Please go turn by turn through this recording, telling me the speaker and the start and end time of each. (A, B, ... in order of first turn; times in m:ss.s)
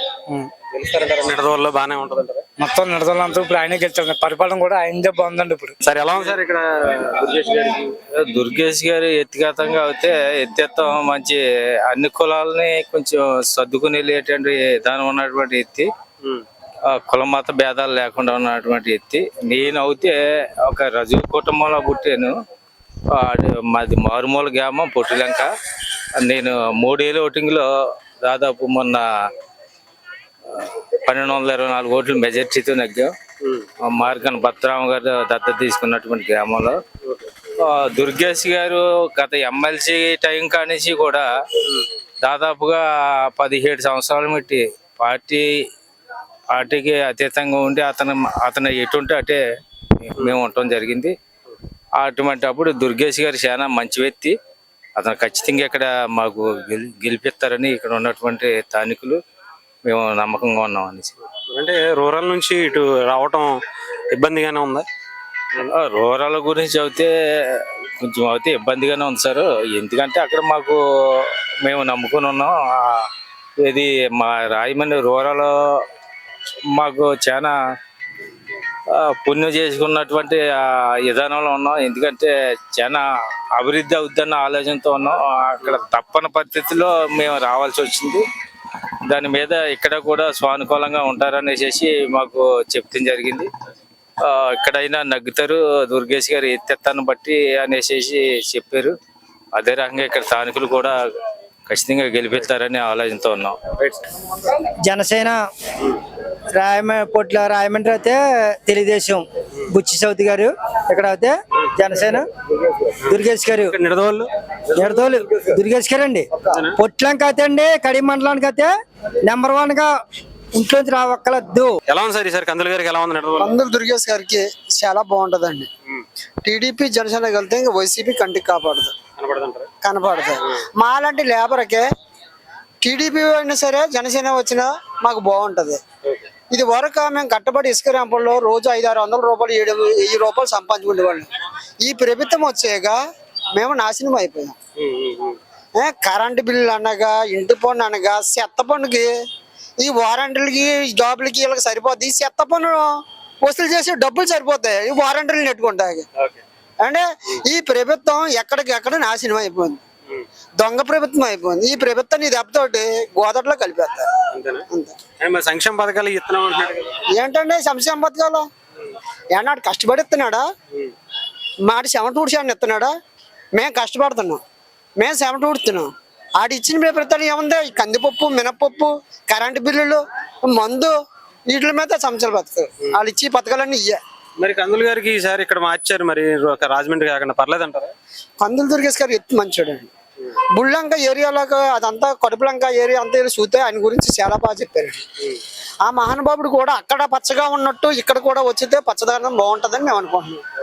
0:00.7-0:02.4 A
0:02.6-0:05.7 B
0:05.8-0:08.0 A
0:08.2-0:15.9 C
0:17.0-0:22.4 C
0:23.1-0:25.5 C
0:26.2-0:27.7 C
0:28.2-0:29.1 C
0:30.5-0:33.1 C
0:33.9-0:36.8 C
0:37.6-0:41.2 C
0:42.2-0:42.8 C
0:43.3-0:45.5 C
0:46.5-0:49.4 C
0:50.2-0:51.2 C
0:52.0-0:54.4 C
0:55.0-0:59.2 C
0:59.9-1:01.1 C
1:01.5-1:03.5 A
1:04.1-1:04.9 A
1:05.7-1:13.0 C
1:13.6-1:15.5 C
1:16.7-1:17.5 C
1:19.0-1:20.4 C
1:21.1-1:23.0 C
1:23.6-1:28.2 C
1:29.1-1:33.5 C
1:34.2-1:38.9 C
1:39.6-1:41.0 C
1:41.7-1:43.6 C
1:44.8-1:45.4 D
1:46.5-1:52.2 D
1:53.0-1:54.3 A
1:53.1-1:53.7 D
1:54.8-1:58.7 D
1:56.4-1:56.8 A
1:59.2-1:59.9 D
2:00.5-2:01.7 D
2:01.9-2:03.6 A
2:03.4-2:05.7 E
2:06.4-2:08.9 E
2:09.2-2:09.7 A
2:09.8-2:11.8 E
2:12.8-2:15.8 E
2:16.5-2:21.3 E
2:21.8-2:23.0 E
2:23.6-2:24.6 E
2:24.8-2:25.4 A
2:25.8-2:29.1 E
2:29.8-2:32.9 E
2:33.4-2:36.0 E
2:36.8-2:39.8 E
2:40.6-2:44.1 E
2:44.3-2:44.7 A
2:45.2-2:47.0 A
2:47.2-2:48.5 E
2:49.3-2:50.4 E
2:51.6-2:52.9 E
2:53.6-2:54.4 E
2:55.0-3:00.9 E
3:01.5-3:04.0 E
3:04.4-3:07.9 A
3:08.4-3:09.9 E
3:10.5-3:15.0 E
3:15.8-3:20.4 E